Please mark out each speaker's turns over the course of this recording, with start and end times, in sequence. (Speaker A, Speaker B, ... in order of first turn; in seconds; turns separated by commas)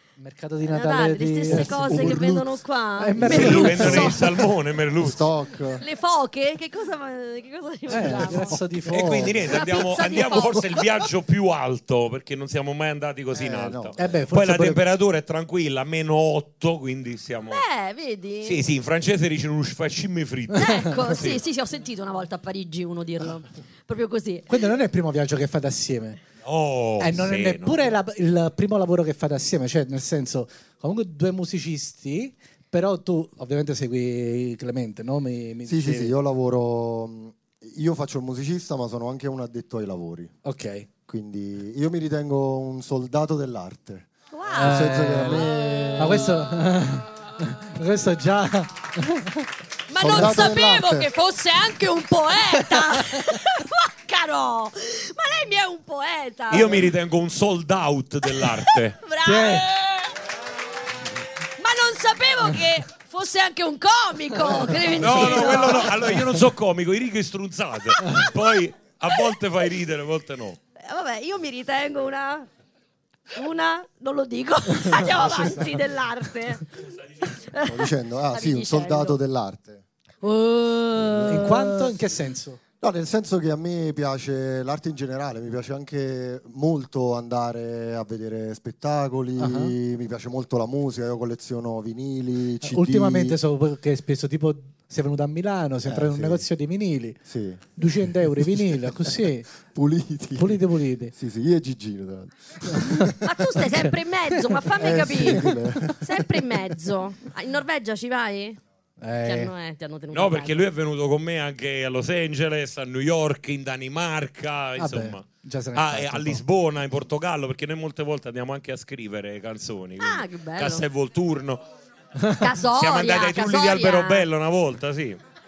Speaker A: 0.2-2.2, Speaker B: 0.6-4.4, Speaker C: 1.5-2.6, Speaker A: 3.0-4.2, Speaker C: 3.2-4.2, Speaker D: 3.2-5.3, Speaker C: 5.0-5.8, Speaker B: 5.8-8.6, Speaker A: 7.9-9.5, Speaker D: 8.8-17.6, Speaker C: 9.0-9.6, Speaker B: 9.5-10.9, Speaker C: 13.3-14.2, Speaker A: 14.0-14.8, Speaker B: 17.5-18.6, Speaker D: 18.4-21.4, Speaker B: 20.6-24.7, Speaker A: 24.5-26.2, Speaker D: 26.4-27.9, Speaker A: 27.0-36.1, Speaker C: 35.7-40.3, Speaker A: 40.5-40.9, Speaker C: 41.1-46.3, Speaker B: 44.3-46.5, Speaker A: 44.5-49.5, Speaker B: 49.9-56.9, Speaker C: 50.0-51.1, Speaker D: 56.5-59.0, Speaker B: 58.2-60.1, Speaker A: 59.2-59.7, Speaker B: 61.6-66.2, Speaker A: 64.5-64.9, Speaker D: 65.0-70.6, Speaker B: 68.1-68.5, Speaker B: 70.8-72.5, Speaker B: 73.3-79.2, Speaker C: 77.6-79.8, Speaker B: 80.2-81.9, Speaker C: 81.0-81.6, Speaker A: 81.3-82.6, Speaker C: 82.8-93.4, Speaker A: 89.4-89.7, Speaker A: 92.6-97.2, Speaker C: 95.8-96.5, Speaker C: 97.3-100.6, Speaker A: 97.8-99.5, Speaker A: 100.4-101.1, Speaker C: 101.1-103.3, Speaker A: 102.7-103.1, Speaker B: 103.2-108.6, Speaker A: 104.4-104.6, Speaker C: 104.8-106.7, Speaker A: 105.3-105.5, Speaker A: 109.0-109.5, Speaker B: 109.2-110.7, Speaker D: 110.1-121.7, Speaker A: 114.8-116.4, Speaker B: 120.0-120.8, Speaker A: 122.2-122.5, Speaker B: 122.4-124.3, Speaker D: 122.7-125.2